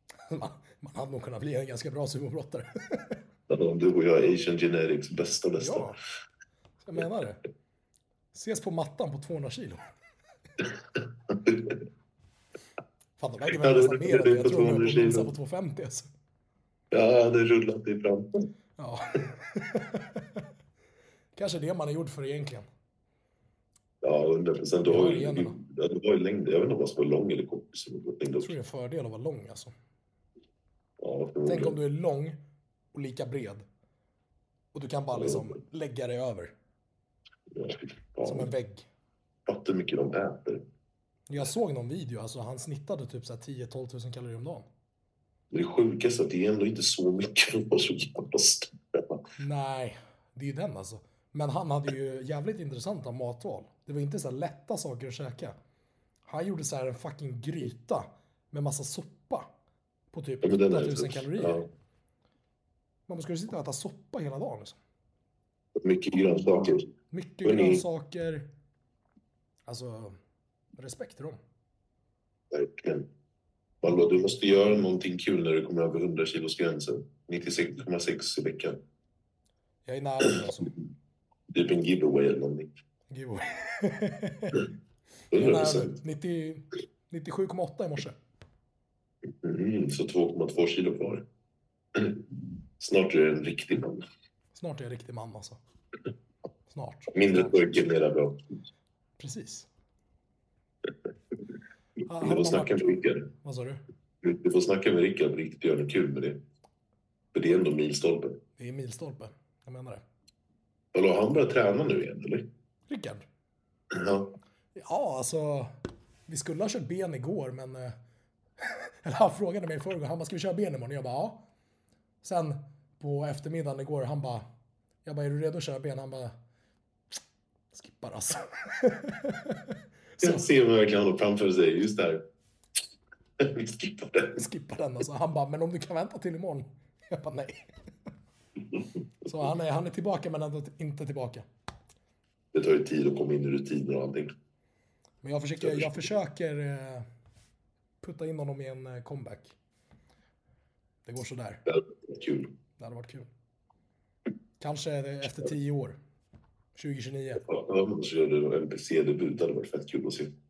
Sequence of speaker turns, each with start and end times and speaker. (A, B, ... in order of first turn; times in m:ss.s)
0:00.2-0:03.2 A
0:03.5-0:05.9 B
0:05.6-0:06.0 A
0:06.8-0:07.4 A
0:08.3-0:09.8 A
0:11.3-0:11.8 B
0:13.2-0:16.1 A
0:13.5-0:15.3 B
0:16.9-0:18.5 B
0:18.8-0:20.4 A
0:21.4-0:22.7 A
0:24.0-0:28.5 B
0:24.8-0:25.6 A
0:28.4-0:29.7 A
0:31.0-0:31.8 B
0:31.4-0:32.4 A
0:32.9-0:33.6 A
0:34.7-0:36.5 A
0:35.1-0:35.5 B
0:37.5-0:38.5 B
0:38.2-0:38.8 A
0:39.4-0:40.6 B
0:41.3-0:44.7 A
0:45.5-0:49.2 B
0:49.4-0:55.5 A
0:56.3-0:59.5 A
1:00.1-1:01.6 A
1:00.4-1:01.7 B
1:03.1-1:04.8 A
1:05.8-1:06.9 B
1:07.1-1:08.4 A
1:07.4-1:07.8 B
1:09.7-1:10.2 A
1:10.8-1:11.4 A
1:12.5-1:13.1 B
1:13.8-1:18.8 B
1:19.8-1:20.7 A
1:21.5-1:22.7 B
1:23.1-1:24.7 A
1:25.3-1:26.0 B
1:25.3-1:28.2 A
1:29.4-1:31.2 B
1:31.9-1:32.3 B
1:32.8-1:34.0 B
1:34.5-1:35.6 A
1:36.7-1:37.6 A
1:37.1-1:38.5 B
1:39.2-1:39.7 A
1:42.1-1:43.8 A
1:42.2-1:43.3 B
1:44.2-1:46.4 B
1:47.3-1:48.4 B
1:48.6-1:50.0 A
1:50.9-1:52.5 B
1:52.9-1:53.2 A
1:53.9-1:54.3 B
1:54.7-1:55.7 A
1:56.3-1:58.0 A
1:58.6-2:01.4 A
2:02.2-2:04.4 A
2:05.0-2:06.3 A
2:07.7-2:10.4 A
2:10.2-2:12.2 B
2:13.4-2:14.4 B
2:14.3-2:17.6 A
2:19.2-2:21.4 A
2:22.5-2:24.3 B
2:25.2-2:27.1 A
2:25.6-2:25.9 B
2:28.0-2:29.5 A
2:31.0-2:31.6 A
2:31.6-2:32.5 B
2:32.8-2:33.3 A
2:34.6-2:36.0 A
2:36.8-2:37.4 A
2:37.4-2:40.3 B